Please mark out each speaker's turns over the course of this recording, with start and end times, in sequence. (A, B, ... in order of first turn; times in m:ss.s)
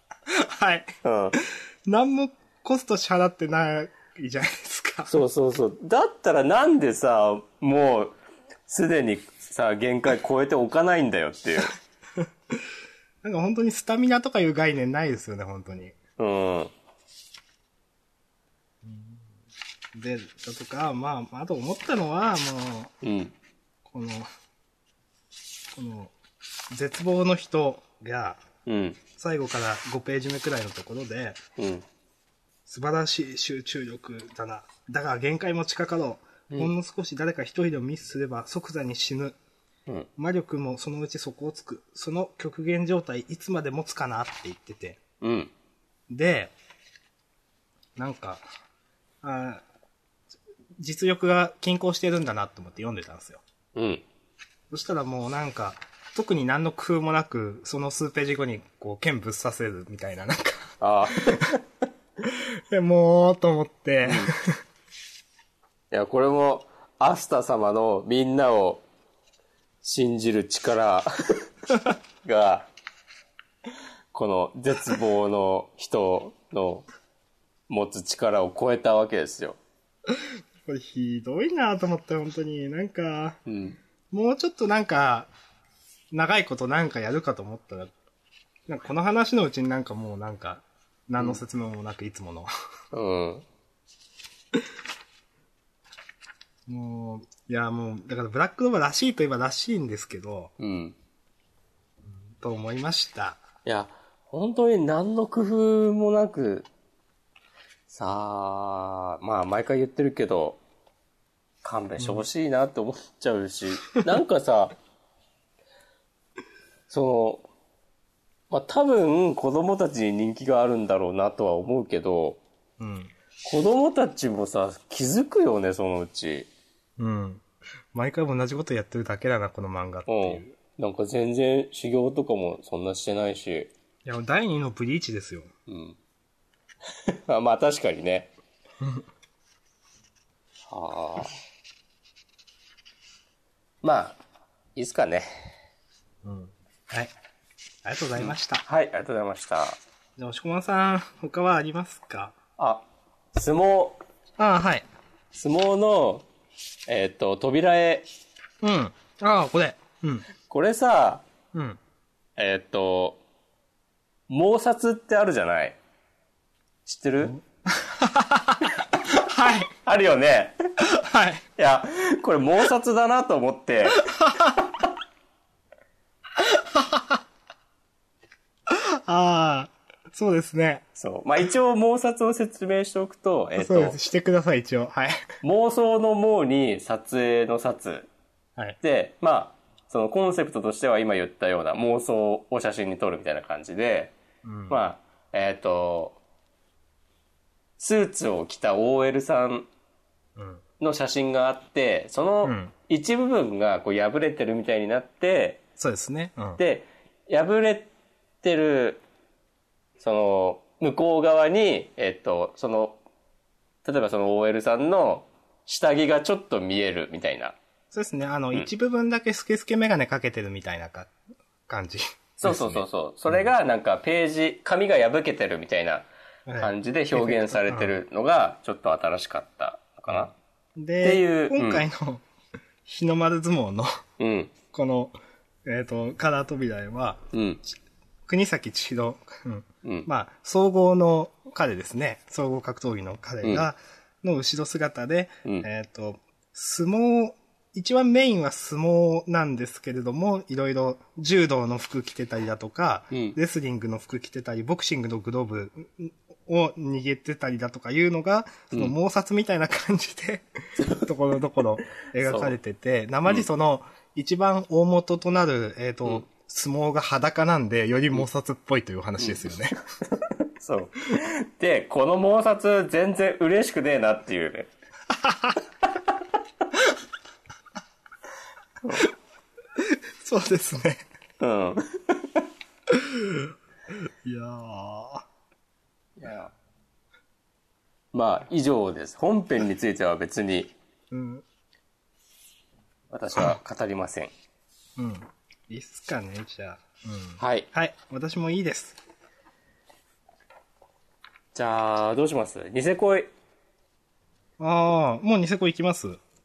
0:00.3-0:05.1 A
0:01.0-0:01.4 B
0:05.1-0:08.2 B
0:08.7-0:11.7 B
0:12.2-0:12.6 A
0:13.2-0:16.0 A
0:16.2-0:16.7 B
0:18.8-0:19.3 A
0:19.9-0:22.9 A
0:23.0-0:23.3 B
0:23.8-0:24.3 A
0:25.7-0:26.1 A
0:26.7-0:28.4 A
0:28.6-0:29.0 B
0:29.2-0:31.4 A
0:31.6-0:31.8 B
0:32.6-0:39.4 A
0:40.2-0:45.0 A
0:45.2-0:45.5 B
0:46.1-0:46.5 A
0:48.0-0:48.4 A
0:49.2-0:49.6 A
0:50.8-0:53.4 A
0:53.7-0:54.0 B
0:54.7-1:01.5 A
1:00.8-1:01.6 B
1:02.2-1:04.6 A
1:04.0-1:04.3 B
1:05.9-1:08.8 B
1:09.8-1:11.4 B
1:12.2-1:12.7 B
1:14.1-1:16.8 B
1:17.7-1:19.6 B
1:20.1-1:23.4 A
1:23.4-1:23.8 B
1:24.1-1:25.3 A
1:26.1-1:27.9 A
1:28.7-1:32.5 A
1:32.9-1:33.4 B
1:36.7-1:40.5 A
1:40.6-1:41.0 B
1:42.2-1:43.4 A
1:43.6-1:46.7 B
1:47.9-1:50.6 B
1:51.6-1:54.7 B
1:52.0-1:52.2 A
1:56.9-1:57.4 B
1:58.5-2:02.4 B
2:02.8-2:03.1 A
2:03.4-2:06.5 B
2:07.0-2:10.6 A
2:10.1-2:13.7 B
2:14.0-2:15.5 A
2:15.7-2:16.0 B
2:17.1-2:18.3 B
2:20.7-2:21.3 B
2:23.8-2:24.2 B
2:24.8-2:25.5 B
2:26.2-2:27.1 A
2:27.8-2:28.6 A
2:28.2-2:29.8 B
2:30.2-2:32.3 A
2:32.6-2:34.0 B
2:34.4-2:34.8 A
2:35.3-2:36.2 B
2:36.9-2:38.1 B
2:38.6-2:40.3 A
2:40.5-2:41.2 B
2:41.5-2:41.8 A
2:42.4-2:43.2 B
2:44.3-2:45.8 B
2:46.8-2:47.4 B
2:47.3-2:49.7 A
2:49.8-2:50.6 B
2:50.8-2:51.4 A
2:51.6-2:54.1 B
2:54.0-2:54.7 A
2:56.4-2:57.2 A
2:58.7-3:00.8 A
3:01.0-3:04.0 B
3:03.6-3:05.2 A
3:05.4-3:08.1 B
3:08.8-3:14.1 B
3:14.4-3:14.8 A
3:14.7-3:16.2 B
3:17.8-3:19.7 B
3:20.4-3:20.6 A
3:20.8-3:25.6 B
3:22.4-3:22.7 A
3:25.8-3:26.6 A
3:26.6-3:27.9 B
3:28.4-3:29.0 B
3:30.0-3:33.0 B
3:33.8-3:37.6 B
3:37.9-3:41.1 A
3:41.7-3:43.5 A
3:42.4-3:46.1 B
3:46.5-3:47.9 A
3:46.6-3:50.3 B
3:50.1-3:52.2 A
3:51.0-3:51.8 B
3:52.8-3:54.0 A
3:54.2-3:54.5 B
3:54.7-3:57.3 A
3:57.3-3:57.6 B
3:58.2-4:29.8 A
4:13.1-4:13.4 B
4:20.8-4:21.1 B
4:22.2-4:22.5 B
4:29.2-4:29.5 B
4:30.1-4:34.7 B
4:35.1-4:35.6 A
4:39.7-4:41.0 A
4:41.4-4:42.4 B
4:42.9-4:45.2 A
4:46.2-4:46.5 B
4:48.1-4:50.7 B
4:51.1-4:51.4 A
4:53.1-4:54.3 B
4:55.0-4:59.0 A
4:57.4-4:57.7 B
5:01.5-5:03.3 B
5:04.6-5:06.2 A